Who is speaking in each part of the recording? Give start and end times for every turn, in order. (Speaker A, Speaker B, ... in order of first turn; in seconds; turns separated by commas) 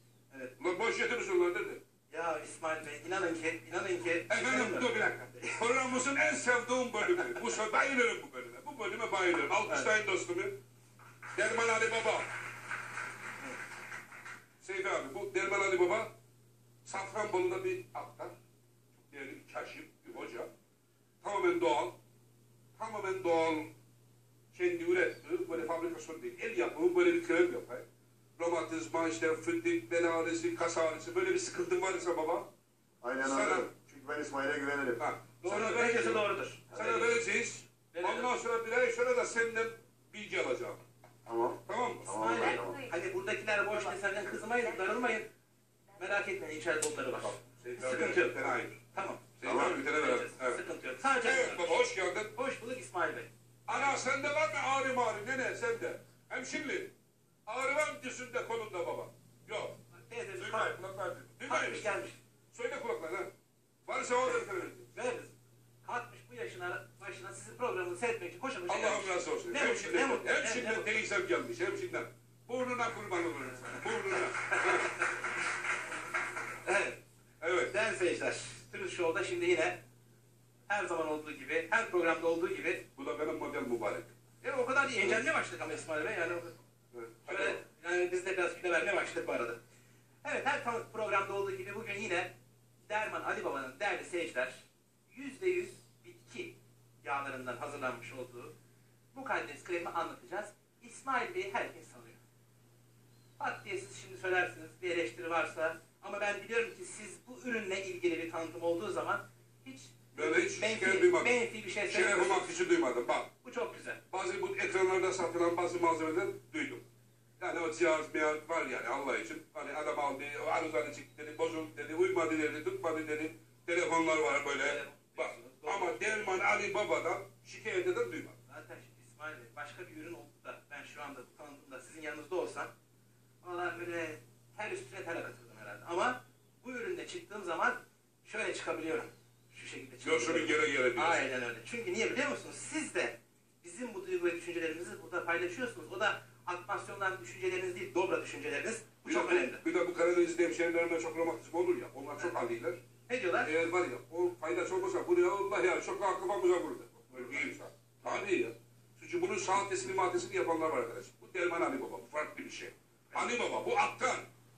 Speaker A: 0.6-1.8, Speaker B: 2.1-5.7, Speaker A: 4.3-10.5, Speaker B: 7.0-7.4, Speaker A: 11.3-12.3, Speaker A: 14.6-16.1, Speaker A: 16.9-18.3, Speaker A: 19.0-20.5, Speaker A: 21.2-22.0, Speaker A: 22.8-23.7, Speaker A: 24.5-27.8, Speaker A: 28.4-32.5, Speaker C: 33.0-35.0, Speaker A: 33.2-33.7, Speaker A: 35.0-40.8, Speaker B: 35.4-37.2, Speaker B: 37.9-38.3, Speaker C: 41.3-42.8, Speaker A: 41.7-42.1, Speaker B: 42.1-45.3, Speaker B: 46.0-51.8, Speaker A: 47.3-48.8, Speaker A: 49.4-50.6, Speaker C: 49.5-49.8, Speaker A: 51.2-52.3, Speaker B: 52.3-53.3, Speaker A: 53.7-56.9, Speaker A: 57.5-59.8, Speaker B: 60.0-60.8, Speaker A: 60.4-61.9, Speaker B: 61.5-62.2, Speaker A: 62.5-63.3, Speaker A: 63.9-64.9, Speaker B: 64.9-71.0, Speaker A: 68.7-75.0, Speaker B: 74.1-75.2, Speaker B: 76.6-77.0, Speaker A: 77.4-77.7, Speaker B: 77.7-79.8, Speaker B: 80.7-82.8, Speaker A: 83.0-84.1, Speaker B: 84.4-86.6, Speaker A: 86.9-87.6, Speaker B: 87.2-89.6, Speaker B: 90.2-92.3, Speaker B: 92.9-98.5, Speaker B: 99.1-102.2, Speaker B: 103.4-112.6, Speaker A: 110.1-111.3, Speaker A: 111.9-113.3, Speaker B: 113.4-114.0, Speaker A: 114.1-116.8, Speaker A: 117.4-128.4, Speaker B: 124.6-126.4, Speaker B: 128.5-132.7, Speaker B: 133.4-149.6, Speaker A: 140.0-141.2, Speaker A: 149.1-152.8, Speaker B: 153.1-153.5, Speaker A: 153.4-164.3, Speaker B: 157.2-157.5